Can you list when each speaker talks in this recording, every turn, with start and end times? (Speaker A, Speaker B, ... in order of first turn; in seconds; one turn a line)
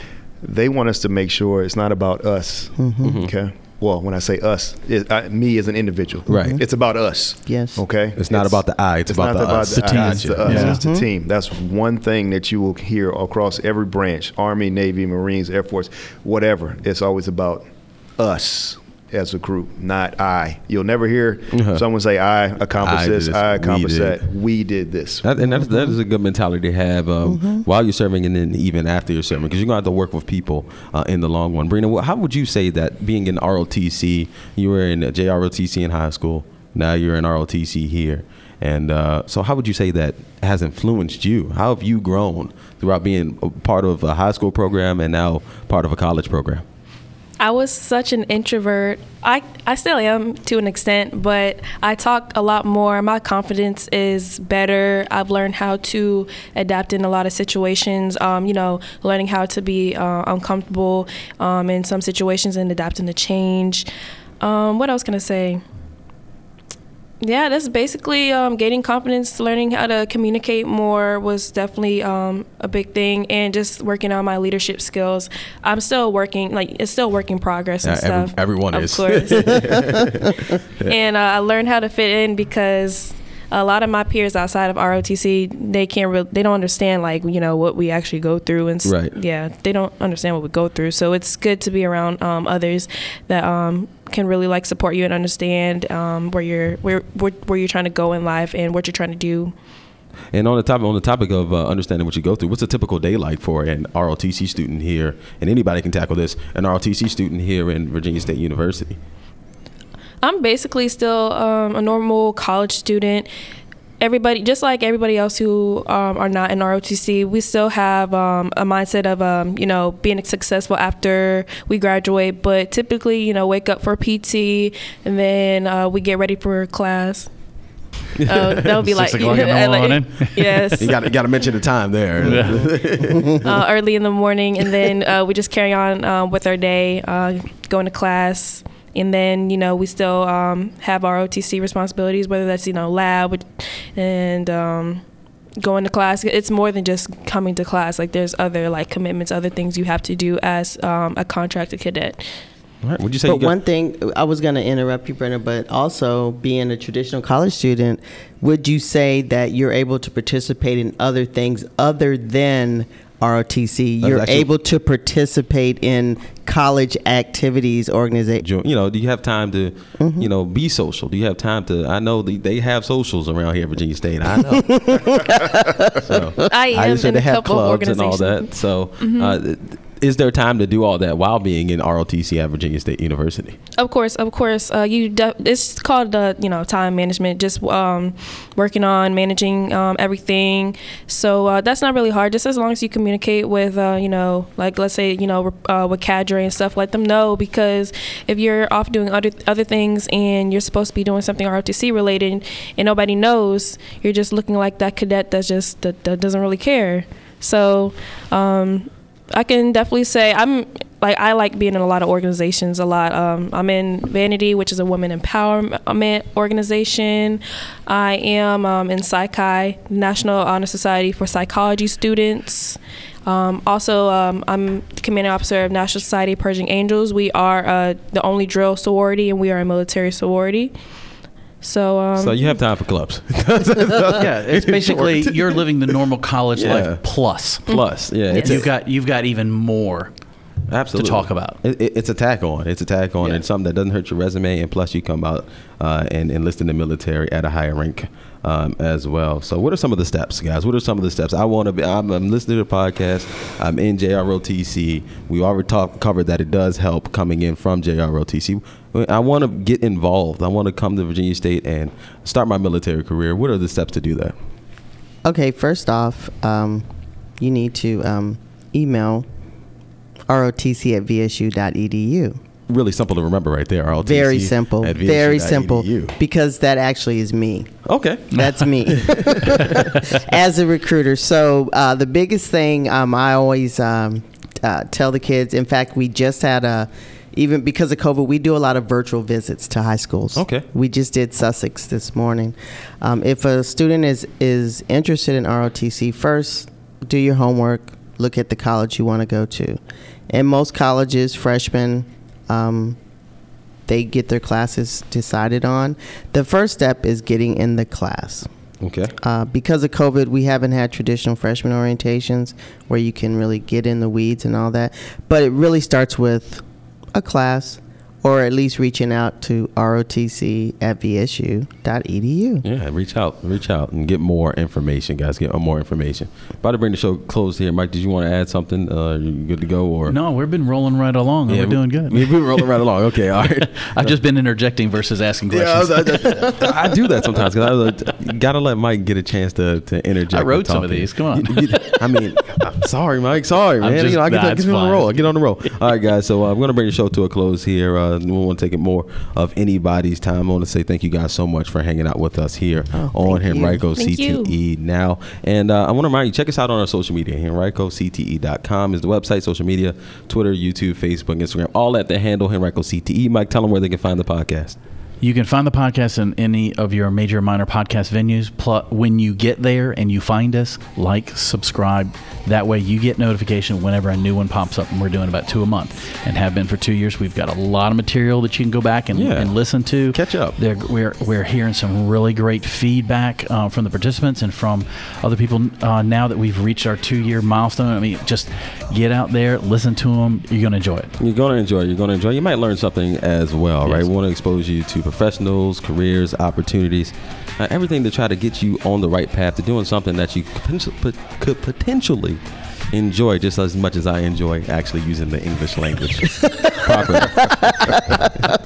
Speaker A: 0.4-17.6
Speaker B: 2.8-3.1
Speaker C: 3.0-3.3
Speaker C: 6.3-6.5
Speaker B: 6.3-6.6
Speaker B: 7.5-7.8
Speaker C: 8.2-10.7
Speaker D: 9.6-10.8
Speaker B: 10.4-11.0
Speaker A: 18.2-25.2
Speaker C: 21.5-21.8
Speaker C: 22.8-24.2
Speaker C: 25.2-46.6
Speaker B: 25.4-25.9
Speaker B: 27.2-27.6
Speaker E: 47.4-63.9
Speaker E: 64.4-65.6
Speaker E: 67.2-80.0
Speaker C: 77.8-80.9
Speaker E: 80.8-99.5
Speaker C: 88.8-89.1
Speaker C: 100.3-109.0
Speaker E: 110.2-113.3
Speaker E: 114.0-127.3
Speaker E: 128.2-131.1
Speaker C: 128.3-129.4
Speaker D: 128.8-130.8
Speaker C: 130.8-133.6
Speaker D: 132.2-133.2
Speaker E: 133.4-145.0
Speaker E: 145.6-152.4
Speaker C: 152.8-153.5
Speaker B: 153.2-168.4
Speaker C: 164.0-164.5
Speaker C: 168.4-175.3
Speaker B: 170.0-170.3
Speaker B: 174.5-176.4
Speaker C: 175.9-183.6
Speaker E: 176.5-179.4
Speaker E: 183.8-230.7
Speaker E: 231.6-232.6
Speaker C: 232.2-236.0
Speaker D: 234.1-240.1
Speaker C: 236.5-238.7
Speaker E: 237.7-238.7
Speaker C: 240.7-264.3
Speaker D: 240.9-241.6
Speaker B: 265.2-269.2
Speaker B: 270.3-272.4
Speaker C: 272.7-276.1
Speaker B: 274.0-277.7
Speaker C: 277.9-279.6
Speaker B: 278.3-299.8
Speaker D: 278.3-278.6
Speaker C: 290.4-290.6
Speaker B: 300.3-303.0
Speaker B: 303.9-308.5
Speaker C: 308.8-309.1
Speaker B: 309.2-322.6
Speaker C: 322.6-330.1
Speaker D: 330.1-332.7
Speaker C: 331.5-334.1
Speaker D: 333.6-336.7
Speaker C: 335.5-364.8
Speaker D: 340.3-342.3
Speaker D: 343.8-345.7
Speaker B: 352.9-353.8
Speaker E: 353.9-354.5
Speaker D: 365.2-391.1
Speaker C: 379.1-380.6
Speaker C: 391.2-402.4
Speaker C: 402.9-408.3
Speaker B: 407.2-408.3